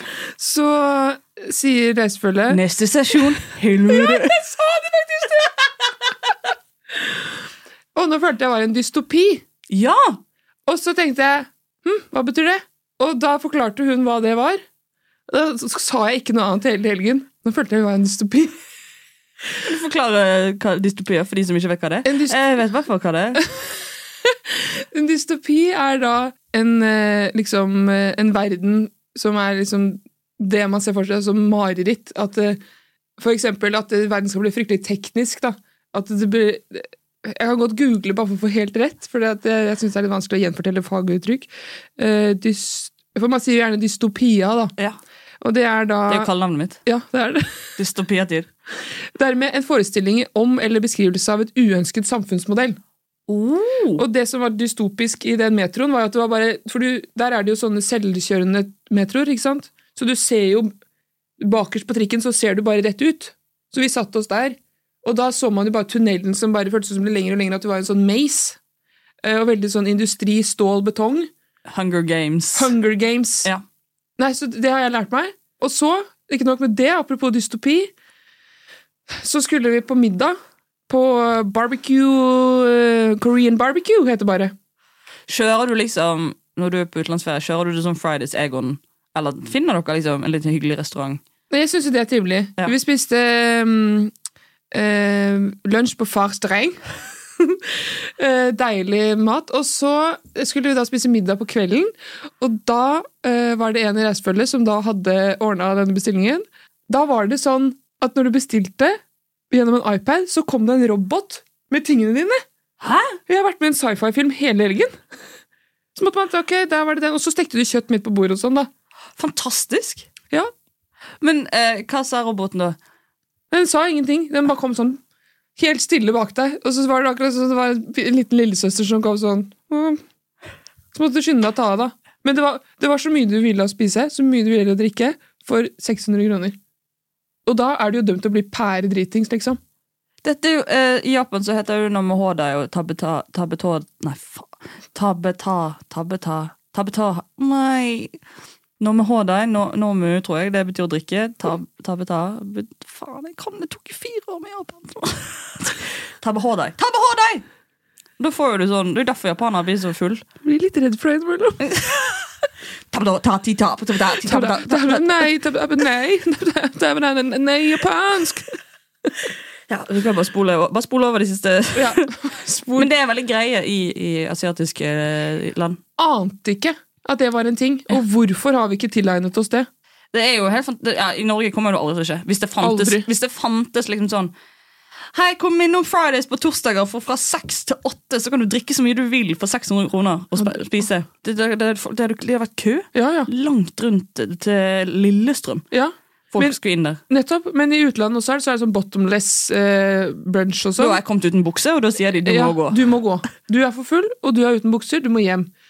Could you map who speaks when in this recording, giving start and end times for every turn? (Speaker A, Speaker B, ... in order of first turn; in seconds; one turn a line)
Speaker A: 0.4-2.6
Speaker B: 2.5-4.3
Speaker A: 3.9-5.7
Speaker A: 8.0-9.4
Speaker B: 9.7-10.2
Speaker A: 10.7-14.6
Speaker A: 15.3-18.6
Speaker B: 19.6-23.4
Speaker A: 22.1-22.4
Speaker A: 24.5-32.6
Speaker A: 33.2-44.7
Speaker A: 45.4-46.3
Speaker B: 46.1-46.8
Speaker A: 46.9-47.5
Speaker B: 47.8-48.5
Speaker A: 49.2-52.8
Speaker B: 53.3-54.0
Speaker A: 54.0-60.7
Speaker A: 61.4-68.6
Speaker A: 69.2-71.3
Speaker B: 71.7-72.7
Speaker A: 72.5-73.5
Speaker A: 74.2-77.9
Speaker A: 79.1-80.4
Speaker A: 80.9-84.5
Speaker B: 85.3-91.2
Speaker A: 91.5-94.1
Speaker A: 94.7-96.8
Speaker A: 97.4-109.0
Speaker A: 109.5-112.4
Speaker B: 112.8-113.2
Speaker A: 113.3-115.0
Speaker A: 116.0-118.7
Speaker B: 119.2-120.1
Speaker B: 121.2-122.8
Speaker A: 123.5-125.0
Speaker A: 125.6-130.0
Speaker A: 130.9-136.6
Speaker A: 137.5-139.6
Speaker B: 140.2-148.2
Speaker B: 148.8-157.4
Speaker B: 158.2-160.2
Speaker A: 160.4-161.8
Speaker B: 161.6-162.1
Speaker B: 162.9-165.3
Speaker A: 164.2-168.6
Speaker B: 169.7-172.1
Speaker A: 171.8-172.9
Speaker B: 172.8-175.8
Speaker A: 176.0-179.7
Speaker B: 180.1-184.3
Speaker A: 182.6-183.1
Speaker B: 185.1-195.7
Speaker A: 192.9-193.3
Speaker A: 195.7-196.6
Speaker B: 196.3-197.0
Speaker A: 197.1-201.0
Speaker B: 200.8-202.8
Speaker A: 202.3-205.5